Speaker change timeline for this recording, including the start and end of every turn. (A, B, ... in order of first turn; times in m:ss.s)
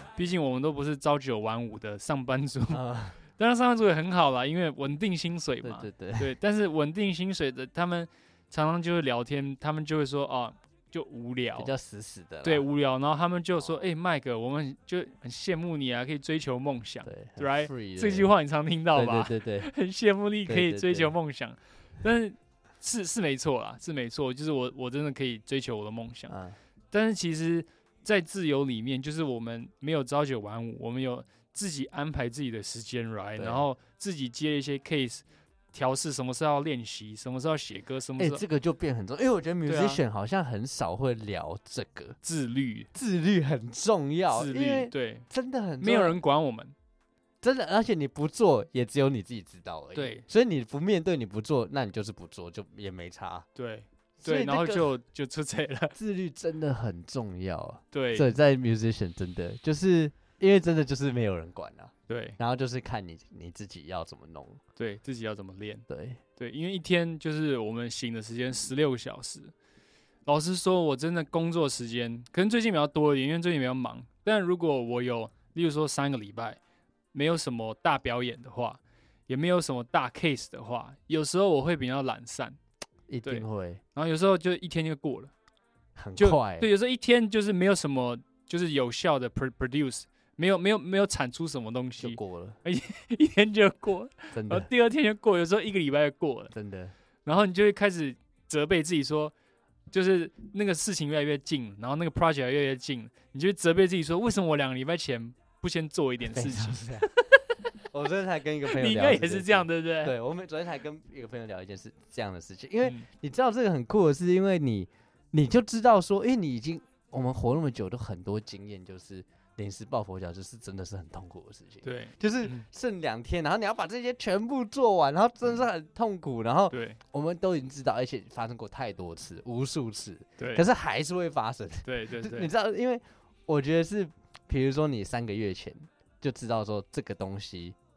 0:00.2-0:02.8 A
0:02.7-0:03.2 B
0:03.3-0:11.7 A
0:05.6-0:06.3 B
0:11.6-0:12.6 B
0:12.4-0:26.3 A
0:13.6-0:13.8 B
0:17.0-0:18.3 B
0:18.9-0:19.7 B
0:20.5-0:21.1 B
0:26.3-0:26.6 B
0:26.9-0:38.4 A
0:33.4-0:33.7 B
0:38.2-0:42.2 B
0:39.6-0:40.0 A
0:42.2-0:42.9 A
0:42.9-0:46.2 B
0:44.3-0:45.3 A
0:45.8-0:46.7 A
0:47.4-0:53.4 B
0:49.9-0:50.2 A
0:53.5-0:56.0 A
0:54.2-0:54.9 B
0:56.0-1:04.6 B
0:57.9-0:58.3 A
1:02.1-1:02.4 A
1:04.8-1:05.8 A
1:05.9-1:06.2 B
1:06.4-1:09.5 A
1:10.2-1:16.6 A
1:17.1-1:22.6 A
1:23.1-1:23.8 B
1:23.2-1:25.3 A
1:26.0-1:26.7 B
1:26.2-1:36.5 A
1:32.0-1:32.6 B
1:34.3-1:34.7 B
1:36.5-1:36.9 B
1:37.2-1:39.3 A
1:39.9-1:47.4 A
1:46.3-1:47.1 B
1:47.9-2:17.8 B
1:48.7-1:50.1 A
2:01.8-2:02.6 A
2:06.7-2:07.0 A
2:11.8-2:12.5 A